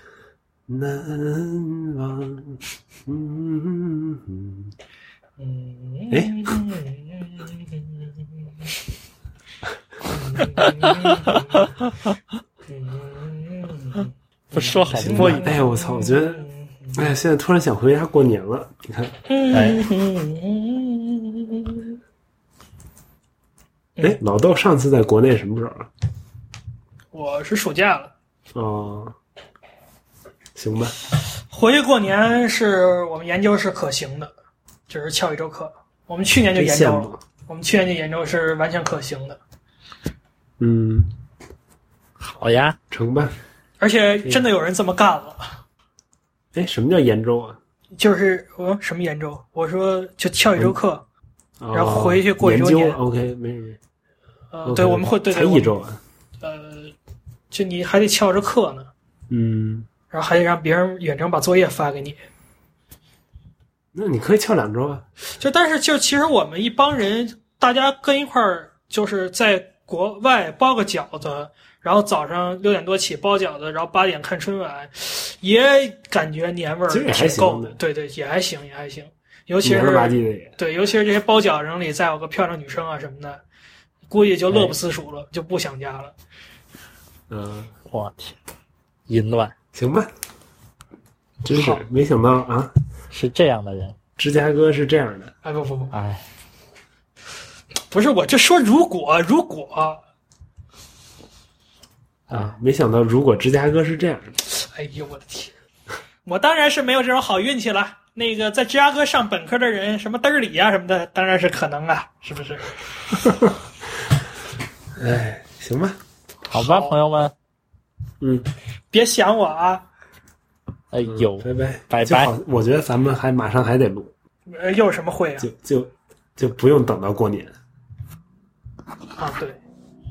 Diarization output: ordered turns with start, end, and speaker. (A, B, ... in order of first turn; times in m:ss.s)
0:00.7-0:04.7 A
0:05.4-0:08.7 B
0:06.1-0:06.5 A
0:10.0-0:11.7 B
0:10.4-0:12.2 C
0:12.7-0:17.1 B
0:14.5-0:15.6 C
0:15.0-0:19.2 A
0:19.3-0:22.0 B
0:19.5-0:19.8 C
0:24.0-0:25.9 A
0:27.1-0:28.1 B
0:28.6-0:29.2 A
0:30.6-0:31.0 A
0:31.5-0:34.3 B
0:34.9-0:39.4 B
0:36.6-0:37.2 A
0:40.6-0:41.1 A
0:42.2-0:42.8 C
0:42.9-0:43.4 A
0:43.8-0:45.6 B
0:46.5-0:47.6 A
0:48.0-0:51.0 B
0:51.6-0:53.8 A
0:51.7-0:53.0 B
0:54.5-0:55.7 B
0:54.6-0:56.0 A
0:56.4-0:56.9 B
0:57.5-0:58.9 B
0:59.3-0:59.9 A
1:00.1-1:02.2 B
1:03.9-1:05.1 A
1:05.4-1:23.4 B
1:16.9-1:17.8 A
1:19.6-1:20.5 A
1:24.1-1:26.2 B
1:24.5-1:24.8 C
1:27.3-1:27.7 A
1:27.9-1:28.4 C
1:29.1-1:29.5 C
1:29.7-1:30.1 A
1:31.4-1:32.7 A
1:31.5-1:31.8 B
1:33.1-1:34.0 C
1:34.2-1:35.3 A
1:35.4-1:35.9 B
1:35.9-1:36.2 C
1:37.9-1:40.0 B
1:42.3-1:44.4 A
1:44.5-1:45.5 B
1:46.2-1:52.8 B
1:53.3-1:53.5 A
1:55.0-1:56.0 A
1:56.5-1:57.4 C
1:56.5-1:57.0 B
1:58.2-1:58.5 A
1:58.9-1:59.9 B
2:00.9-2:02.3 C
2:01.1-2:04.1 A
2:04.5-2:05.5 B
2:05.4-2:07.5 A
2:09.2-2:09.6 B